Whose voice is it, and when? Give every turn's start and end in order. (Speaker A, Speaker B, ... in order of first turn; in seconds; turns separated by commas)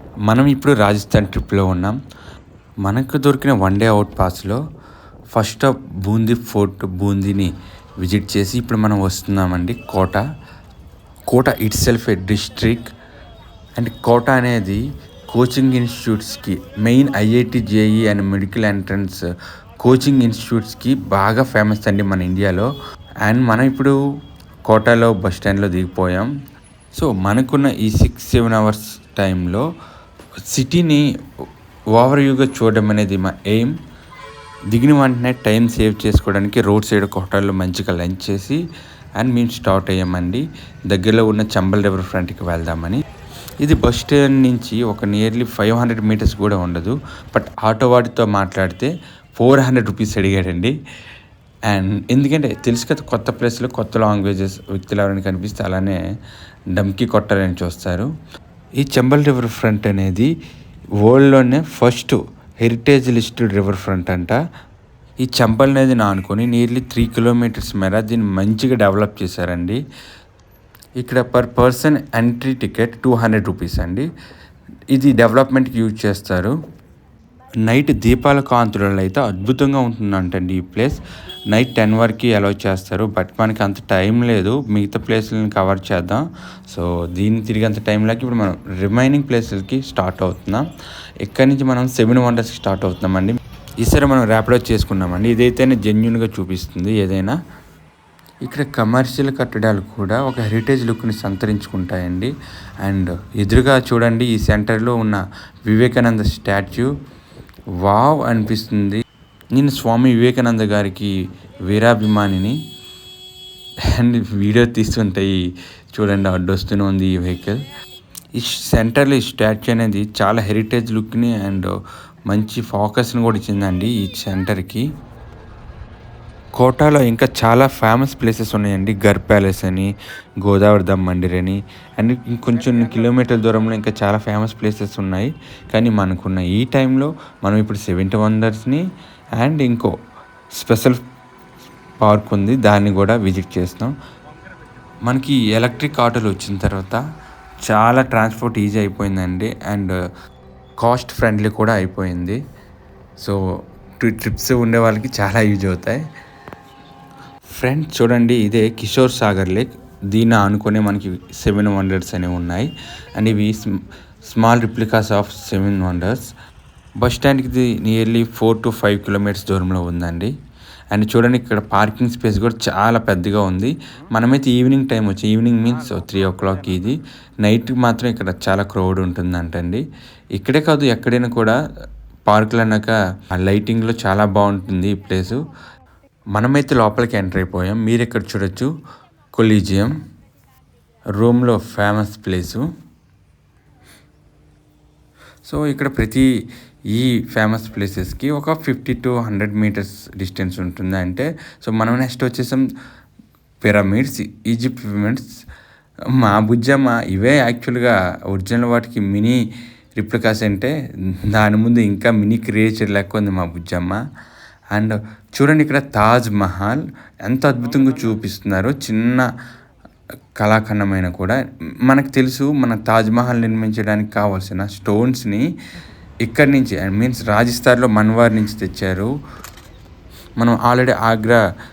Speaker A: 0.3-2.0, Speaker A: 2.8-4.6, Speaker A: 5.3-10.2, Speaker A: 11.3-12.9, Speaker A: 13.8-19.2, Speaker A: 19.8-22.7, Speaker A: 23.2-23.9, Speaker A: 24.7-26.3, Speaker A: 26.9-29.7, Speaker A: 30.5-31.0, Speaker A: 31.9-33.7, Speaker A: 34.7-38.6, Speaker A: 39.2-43.0, Speaker A: 43.6-50.7, Speaker A: 51.7-56.0, Speaker A: 56.7-58.1, Speaker A: 58.8-60.3, Speaker A: 61.0-64.4, Speaker A: 65.2-69.8, Speaker A: 71.0-74.1, Speaker A: 74.9-76.5, Speaker A: 77.6-90.7, Speaker A: 91.2-97.4, Speaker A: 98.4-106.9, Speaker A: 107.8-109.0, Speaker A: 109.5-111.1, Speaker A: 111.7-112.6, Speaker A: 113.9-115.4, Speaker A: 115.9-117.7, Speaker A: 118.3-121.7, Speaker A: 122.3-124.9, Speaker A: 126.6-138.8, Speaker A: 139.4-139.9, Speaker A: 140.5-141.0, Speaker A: 142.0-143.9, Speaker A: 145.0-147.0, Speaker A: 147.7-149.9, Speaker A: 150.8-152.4, Speaker A: 154.0-156.1, Speaker A: 157.5-166.3, Speaker A: 167.0-170.3, Speaker A: 170.9-179.8, Speaker A: 180.3-181.6, Speaker A: 182.3-185.5, Speaker A: 186.3-188.7, Speaker A: 189.3-189.9, Speaker A: 191.2-192.6, Speaker A: 195.4-196.3, Speaker A: 196.9-202.6, Speaker A: 203.6-205.3, Speaker A: 206.2-209.4, Speaker A: 210.0-210.7, Speaker A: 211.2-214.0, Speaker A: 214.7-219.3, Speaker A: 220.4-225.4, Speaker A: 226.2-229.1, Speaker A: 230.4-231.4